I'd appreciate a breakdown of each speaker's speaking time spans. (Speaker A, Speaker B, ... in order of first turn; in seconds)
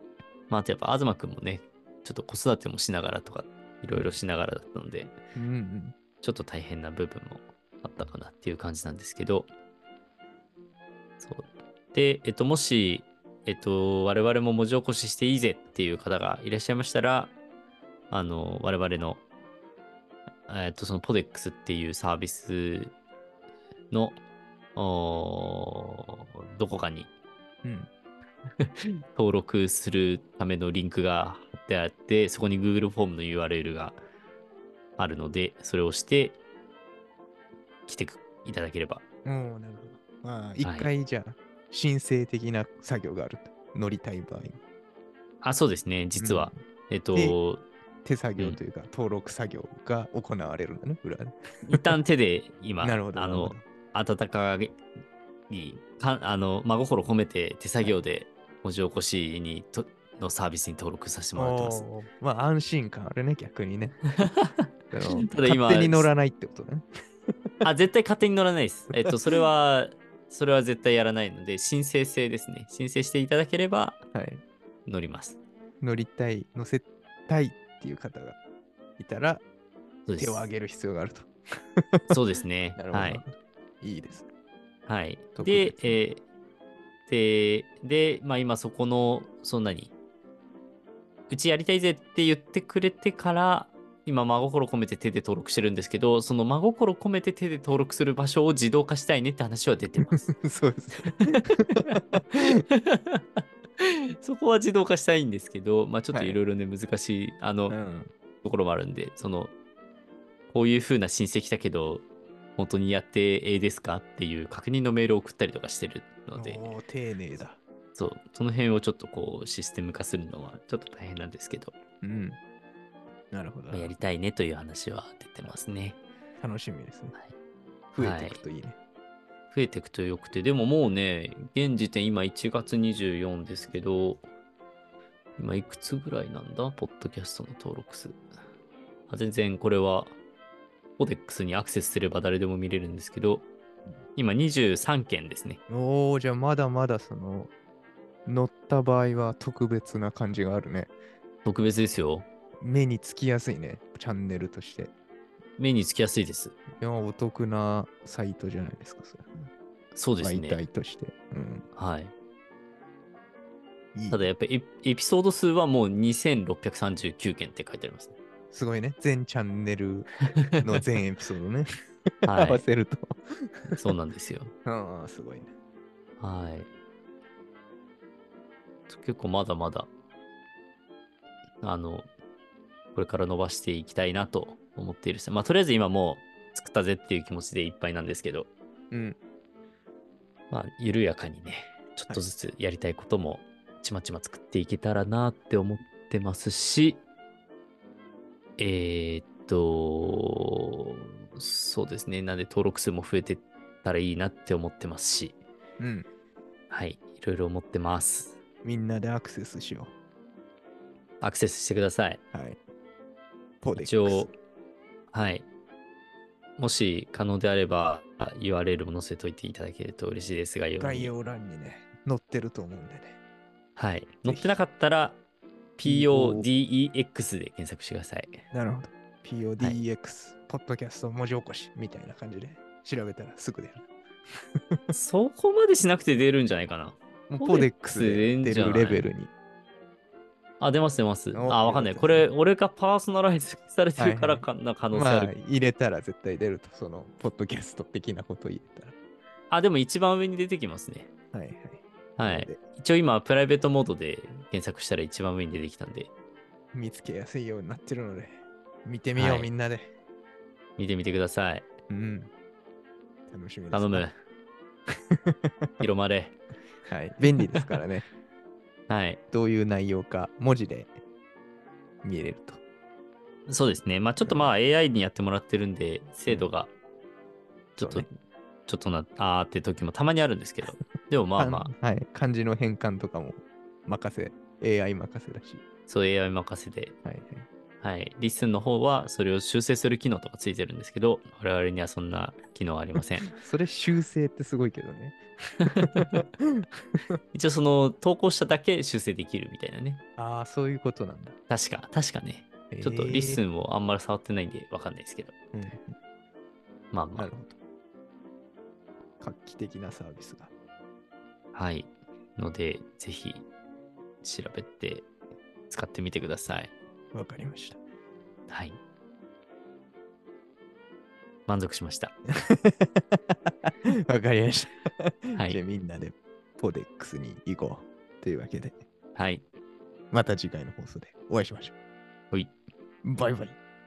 Speaker A: 0.5-5.1, 6.2-9.5, 11.2-17.4, 18.1-19.2, 20.5-22.9, 23.9-24.2, 24.8-27.1, 28.6-34.0, 35.0-36.4, 37.9-39.0, 40.6-40.9, 45.4-47.6, 51.7-54.8, 55.5-61.9, 64.2-64.7, 65.2-66.1, 67.6-74.0, 74.9-75.4, 80.1-80.5, 82.1-83.2, 84.9-86.2, 87.1-89.9, 91.3-100.3, 101.9-107.8, 108.4-109.5, 110.5-112.0, 112.6-116.7, 118.0-121.8, 123.7-126.0, 128.0-128.4, 129.5-134.2, 135.4-138.2, 139.1-140.2, 141.0-143.5, 144.2-145.6, 151.4-152.3, 155.6-156.6, 159.9-160.6, 161.8-162.1, 164.1-168.2, 172.3-172.6, 173.8-174.5, 176.2-176.7, 178.9-179.9, 181.6-182.1, 182.9-188.5, 190.5-197.0, 198.6-205.4, 206.7-208.4, 211.2-212.2, 213.8-214.3, 215.1-215.5, 216.6-221.1, 223.8-225.2, 225.8-228.4, 234.9-239.1, 240.6-245.3, 249.5-251.1, 252.2-256.1, 259.2-259.5, 260.8-261.7, 263.7-264.1, 265.8-266.4, 268.9-269.2, 273.5-276.7, 277.8-278.1, 278.7-281.7, 285.9-286.9, 287.8-293.3, 297.3-300.0, 301.5-305.4, 306.9-307.3, 311.5-313.5, 314.2-315.1, 315.7-316.7, 318.5-318.8, 321.5-322.1, 325.4-325.6, 329.1-329.4
Speaker B: 5.3-6.0, 27.6-27.9, 39.2-44.6, 46.2-46.6, 48.0-52.0, 52.8-53.6, 61.4-64.1, 64.9-66.9, 74.1-74.4, 75.8-78.4, 79.0-79.4, 80.2-82.2, 82.8-84.3, 85.4-86.0, 100.2-102.6, 106.1-106.4, 107.7-108.1, 116.3-117.6, 122.0-122.4, 123.3-123.9, 126.4-127.2, 127.9-128.8, 145.7-147.5, 148.3-150.9, 152.6-154.9, 156.8-159.5, 160.2-161.7, 163.9-164.3, 168.5-171.7, 172.2-173.9, 174.7-175.5, 188.9-189.2, 205.8-206.1, 208.6-209.9, 212.3-212.6, 213.6-214.3, 220.8-223.2, 224.3-224.6, 225.8-226.5, 228.5-233.9, 237.3-239.3, 241.3-242.3, 244.0-248.9, 251.3-252.6, 256.7-259.9, 261.9-262.3, 263.3-264.1, 265.3-265.7, 266.9-268.1, 269.3-270.9, 272.0-272.6, 274.2-274.5, 277.8-278.1, 281.4-285.6, 287.0-287.5, 293.3-297.1, 300.2-301.4, 302.7-303.4, 305.5-305.9, 307.2-307.6, 309.2-310.5, 317.1-317.8, 322.4-328.8, 330.1-331.7, 333.0-333.6